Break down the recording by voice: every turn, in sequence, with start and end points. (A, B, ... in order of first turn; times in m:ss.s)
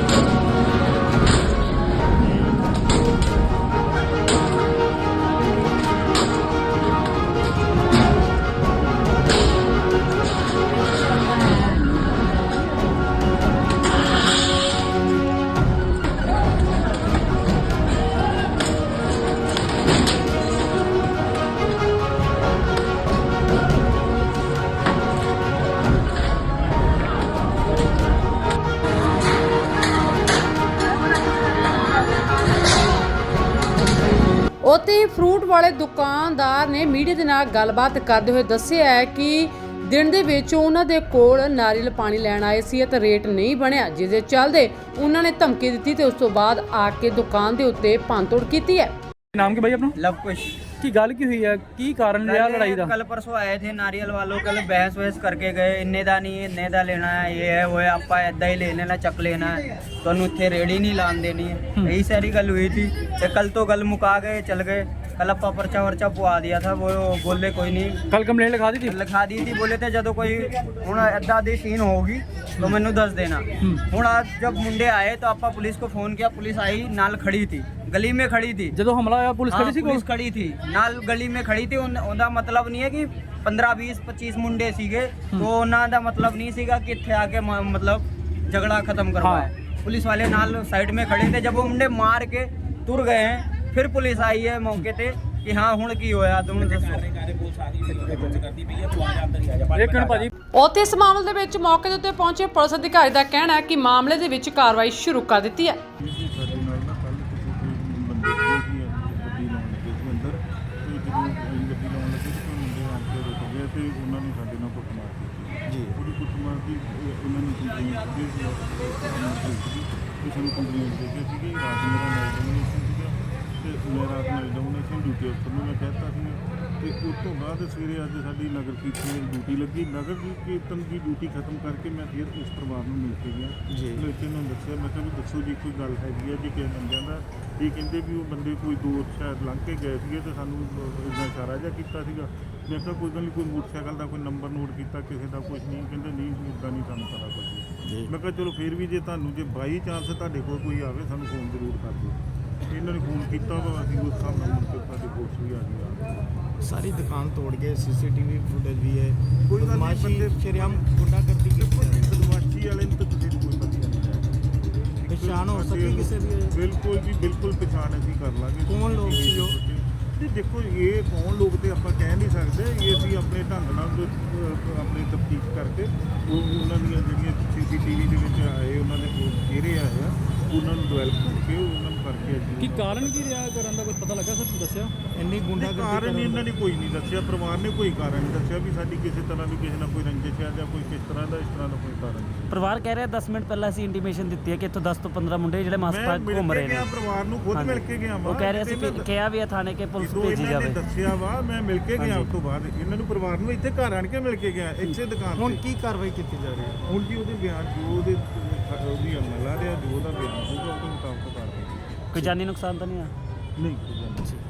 0:34.6-0:48.9 A
0:49.3-0:49.9 B
0:50.0-0:50.6 C
0:50.8-0:53.0 B
0:52.2-1:08.0 C
1:08.1-1:09.0 B
1:08.8-1:18.7 C
1:18.7-1:20.0 B
1:19.5-1:37.4 C
1:29.2-1:29.5 B
1:37.9-1:38.6 B
1:39.6-1:40.3 B
1:40.5-1:45.8 A
1:46.0-2:32.2 D
1:55.7-1:56.0 E
2:13.7-2:14.1 E
2:27.9-2:28.1 E
2:32.7-2:36.1 D
2:36.6-2:42.2 E
2:39.5-2:40.9 D
2:41.6-2:44.4 D
2:45.0-3:03.4 D
2:45.1-2:46.6 E
2:48.7-2:49.6 E
3:02.6-3:04.9 B
3:05.1-3:06.5 E
3:05.6-3:12.5 D
3:12.5-3:16.9 F
3:15.8-3:19.1 D
3:17.5-3:20.8 F
3:20.0-3:25.6 D
3:22.0-3:22.3 F
3:25.4-3:26.8 E
3:26.8-3:32.3 D
3:32.1-3:33.1 F
3:33.6-3:34.4 D